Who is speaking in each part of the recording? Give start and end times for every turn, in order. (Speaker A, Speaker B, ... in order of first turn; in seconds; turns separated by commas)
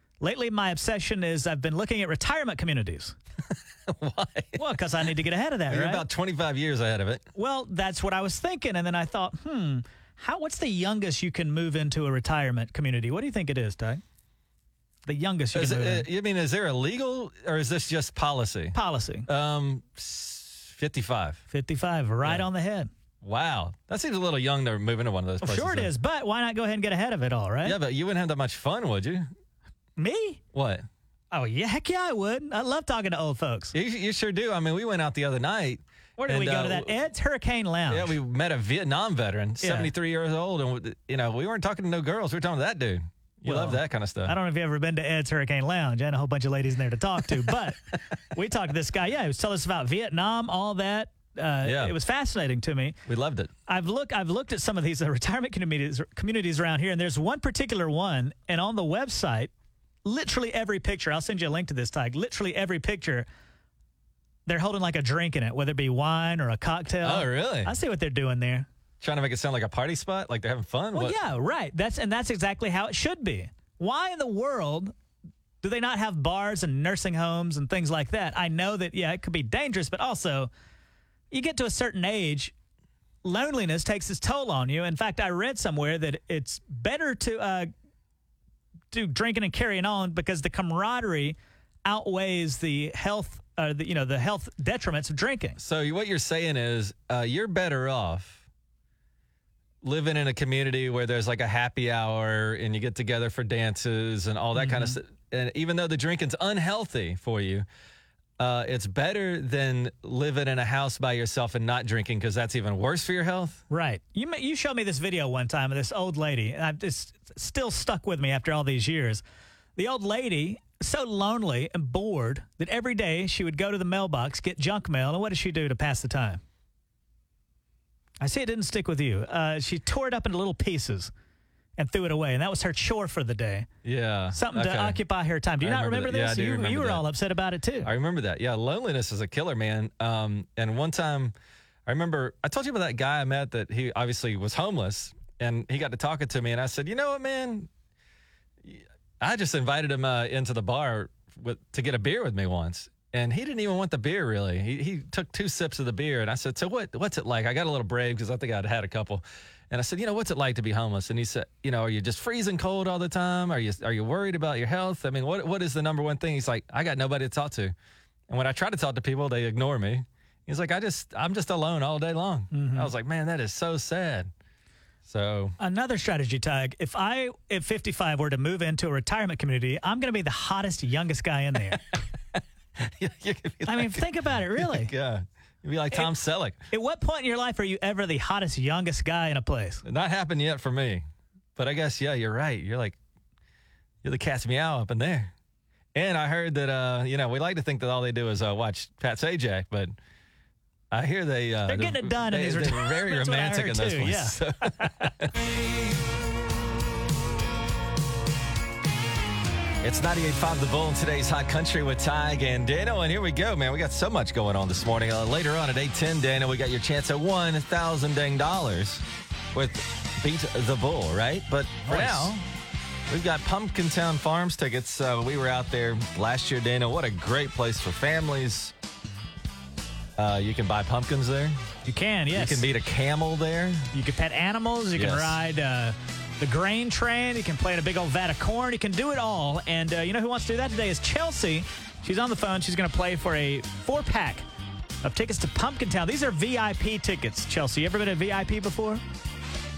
Speaker A: 0.2-3.1, Speaker B: 3.9-4.7, Speaker A: 4.6-6.0, Speaker B: 5.7-7.3, Speaker A: 7.3-14.0, Speaker A: 15.1-16.1, Speaker B: 15.5-18.8, Speaker A: 18.7-19.3, Speaker B: 19.3-21.4, Speaker A: 21.5-22.9, Speaker B: 23.2-25.9, Speaker A: 25.4-27.8, Speaker B: 27.6-29.3, Speaker A: 30.0-30.4, Speaker B: 30.5-30.9, Speaker A: 31.3-33.7, Speaker B: 33.7-36.9, Speaker A: 36.2-38.1, Speaker B: 37.9-44.3, Speaker A: 39.6-39.9, Speaker A: 43.4-47.8, Speaker A: 48.3-53.0, Speaker B: 51.6-51.9, Speaker B: 53.1-53.5, Speaker A: 53.7-59.5, Speaker A: 60.0-63.3, Speaker A: 64.5-68.7, Speaker B: 67.0-67.7, Speaker B: 69.0-71.2, Speaker A: 70.9-74.9, Speaker A: 75.6-80.5, Speaker A: 81.3-82.5, Speaker A: 83.2-87.7, Speaker A: 88.9-95.6, Speaker B: 95.6-98.4, Speaker B: 99.8-107.7, Speaker A: 104.5-105.0, Speaker B: 108.4-113.6, Speaker A: 113.7-119.2, Speaker A: 119.8-126.4, Speaker A: 128.2-131.1, Speaker A: 131.8-133.7, Speaker B: 133.8-135.0, Speaker A: 134.3-137.9, Speaker B: 135.6-137.0, Speaker B: 137.8-141.3, Speaker B: 141.8-147.7, Speaker B: 148.6-167.7, Speaker B: 168.3-174.3, Speaker A: 172.5-172.9, Speaker B: 175.0-175.6, Speaker A: 175.6-181.8, Speaker B: 182.8-186.6, Speaker A: 183.7-184.9, Speaker A: 186.7-189.8, Speaker B: 189.8-191.0, Speaker B: 191.6-193.0, Speaker B: 194.0-195.3, Speaker B: 195.9-199.9, Speaker B: 200.9-205.3, Speaker A: 201.7-205.1, Speaker B: 209.8-222.4, Speaker A: 221.8-222.3, Speaker B: 223.1-228.7, Speaker B: 230.2-231.6, Speaker A: 231.8-232.7, Speaker B: 232.3-233.9, Speaker A: 233.9-244.4, Speaker B: 234.9-235.4, Speaker A: 245.0-249.0